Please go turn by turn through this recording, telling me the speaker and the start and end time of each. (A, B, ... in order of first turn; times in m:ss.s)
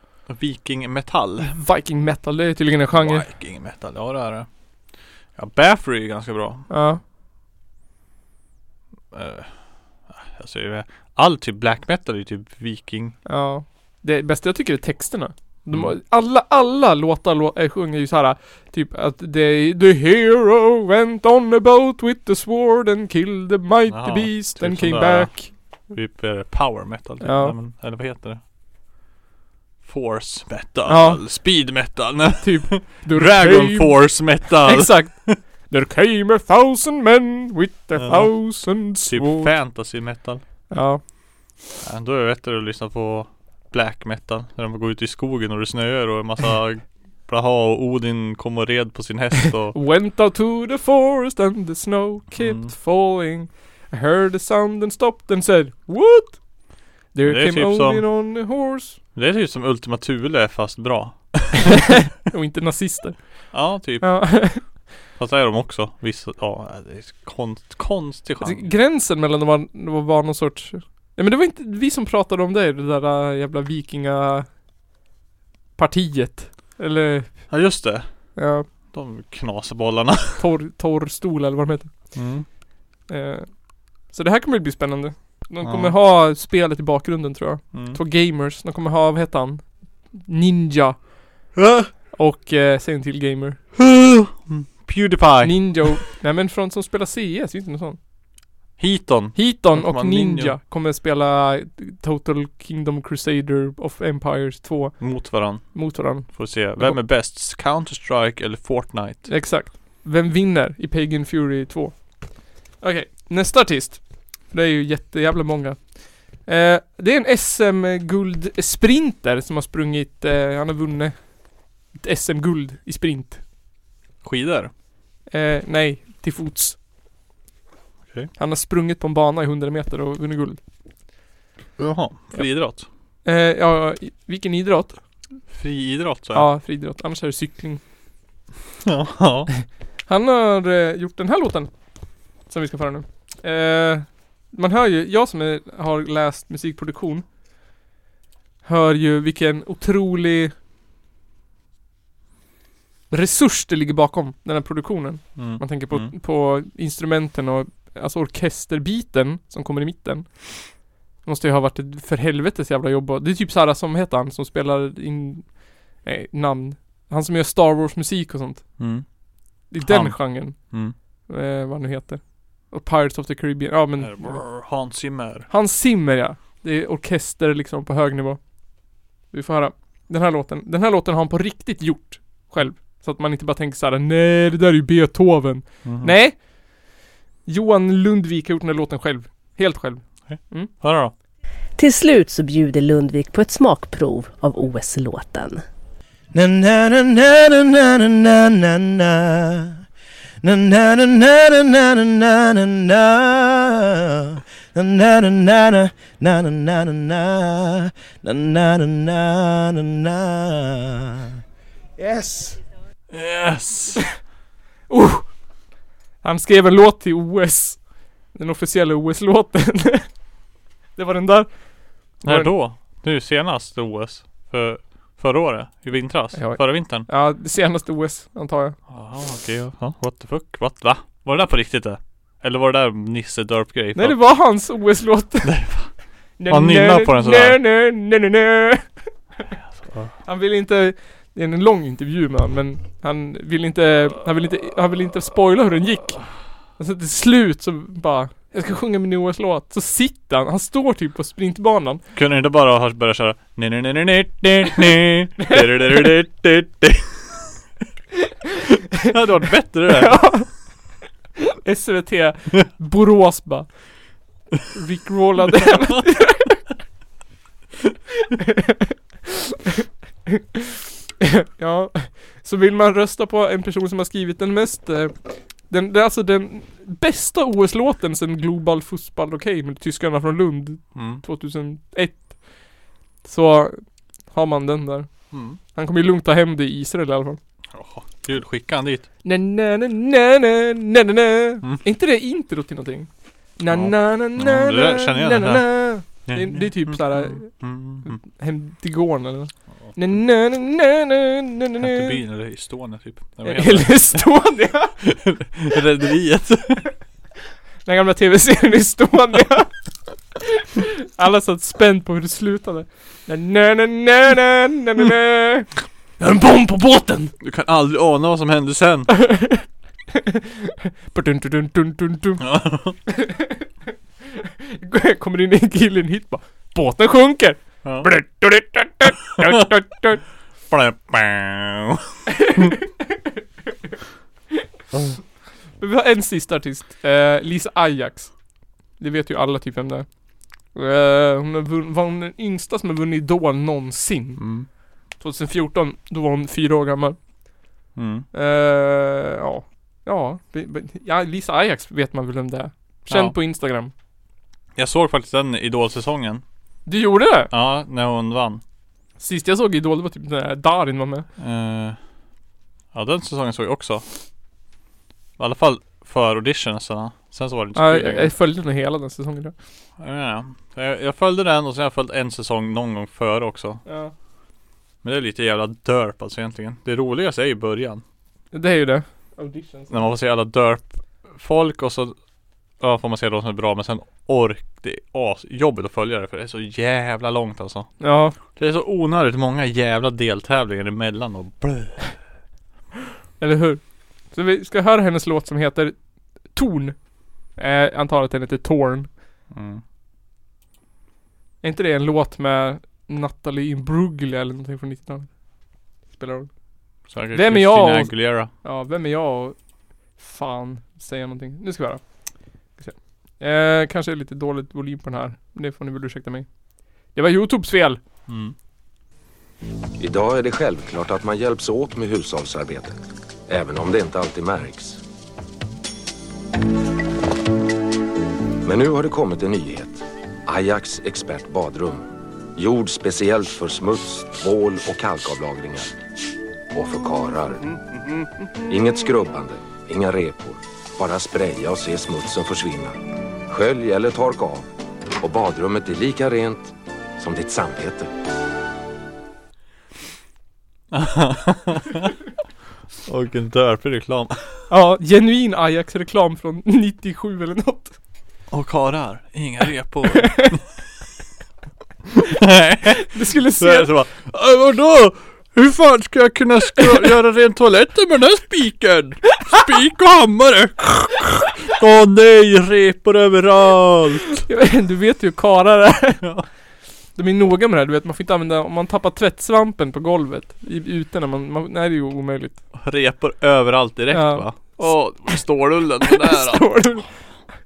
0:00.3-0:01.6 A
0:01.4-0:03.3 B
0:02.9-0:04.5 A
0:05.3-0:06.6 A
0:06.7-0:07.0 B
0:09.1-0:13.2 A
0:13.2-0:25.5 B
0:23.9-0:28.4 A
0:27.2-0:27.6 B
0:29.8-0:35.4 A
0:30.9-0:31.2 B
0:32.4-0:39.5 B
0:38.0-0:40.4 A
0:40.7-0:41.0 B
0:41.8-0:49.8 A
0:49.7-0:59.0 B
0:52.3-0:52.7 A
0:57.2-0:58.1 A
0:59.1-1:01.9 A
1:02.1-1:04.8 B
1:03.5-1:08.7 A
1:08.4-1:14.5 B
1:15.8-1:17.5 B
1:17.5-1:18.3 A
1:18.4-1:18.7 B
1:18.9-1:20.4 A
1:20.4-1:21.9 B
1:22.1-1:22.4 A
1:23.1-1:31.1 B
1:25.6-1:25.9 A
1:27.7-1:28.0 A
1:31.5-1:31.9 A
1:32.1-1:33.6 B
1:33.8-1:36.0 A
1:35.4-1:38.0 B
1:38.8-1:40.6 A
1:39.3-1:47.0 B
1:45.0-1:49.3 A
1:49.3-2:01.4 B
2:01.9-2:03.4 B
2:04.2-2:04.7 A
2:05.3-2:06.8 B
2:08.4-2:10.6 B
2:11.8-2:12.9 A
2:13.2-2:15.0 B
2:15.5-2:16.5 A
2:16.3-2:17.8 B
2:18.8-2:19.5 A
2:20.1-2:21.7 B
2:22.4-2:27.3 B
2:28.6-2:30.5 B
2:33.1-2:48.7 B
2:35.4-2:36.1 A
2:48.8-2:49.0 A
2:49.7-2:50.7 B
2:49.8-2:50.9 A
2:51.3-2:54.4 B
2:54.0-2:55.5 A
2:55.5-2:58.4 B
2:59.3-3:06.9 B
3:05.8-3:06.1 A
3:07.4-3:10.7 B
3:10.2-3:11.1 A
3:11.8-3:15.6 C
3:16.3-3:19.8 D
3:20.4-3:31.4 D
3:32.0-3:32.5 D
3:33.1-3:34.1 A
3:34.9-3:35.3 B
3:36.2-3:40.1 B
3:41.0-3:42.5 B
3:42.2-3:47.1 A
3:46.3-3:48.8 B
3:48.9-3:54.3 A
3:54.0-3:55.5 B
3:55.4-3:55.9 A
3:56.4-3:59.4 B
3:56.4-3:57.6 A
3:59.7-4:00.1 A
4:00.2-4:12.0 B
4:12.1-4:17.2 A
4:15.4-4:16.1 B
4:19.0-4:20.3 A
4:19.9-4:20.9 B
4:21.6-4:23.8 B
4:24.7-4:26.6 B
4:25.5-4:26.0 A
4:28.3-4:28.9 B
4:30.3-4:42.4 B
4:40.9-4:41.2 A
4:43.2-4:45.1 B
4:45.3-4:45.6 A
4:45.7-4:47.4 B
4:47.7-4:49.1 A
4:49.2-5:02.2 B
4:53.7-4:58.2 A
5:01.8-5:04.3 A
5:03.4-5:05.0 B
5:05.0-5:06.9 A
5:07.8-5:09.7 B
5:10.5-5:17.3 B
5:17.4-5:19.1 A
5:19.1-5:19.6 B
5:20.1-5:22.4 B
5:22.4-5:23.0 A
5:23.1-5:23.6 B
5:24.7-5:30.2 B
5:27.8-5:28.1 A
5:30.7-5:32.7 A
5:32.3-5:33.1 B
5:35.8-5:38.3 B
5:39.0-5:40.1 B
5:40.7-5:44.4 B
5:44.4-5:44.7 A
5:45.2-5:47.2 B
5:48.0-5:48.2 A
5:48.3-5:53.9 B
5:53.1-5:53.3 A
5:54.8-5:56.4 A
5:56.8-5:57.5 B
5:57.5-5:58.6 A
5:59.2-6:01.3 B
6:01.4-6:02.0 A
6:02.9-6:04.0 A
6:05.4-6:08.3 A
6:07.8-6:09.5 B
6:10.0-6:13.8 A
6:13.8-6:14.1 B
6:15.0-6:18.0 A
6:18.5-6:20.0 B
6:19.9-6:22.2 A
6:22.8-6:27.9 A
6:28.0-6:28.4 B
6:28.4-6:32.0 A
6:33.4-6:37.0 B
6:37.5-6:39.1 B
6:39.5-6:39.8 A
6:41.6-6:45.3 B
6:46.1-6:46.5 B
6:47.1-6:48.5 A
6:47.3-6:49.6 B
6:50.2-6:52.0 B
6:52.8-6:56.5 B
6:57.1-6:58.0 B
6:58.3-6:58.5 A
7:00.0-7:05.0 E
7:08.6-7:16.0 E
7:16.7-7:17.7 E
7:18.7-7:24.7 E
7:25.2-7:28.1 E
7:30.9-7:32.2 A
7:33.0-7:34.6 A
7:34.7-7:38.0 B
7:38.5-7:40.6 A
7:42.1-7:54.4 A
7:43.0-7:43.9 B
7:54.5-7:56.2 B
7:57.2-8:02.6 B
8:02.7-8:06.7 A
8:04.1-8:04.9 B
8:06.0-8:07.1 B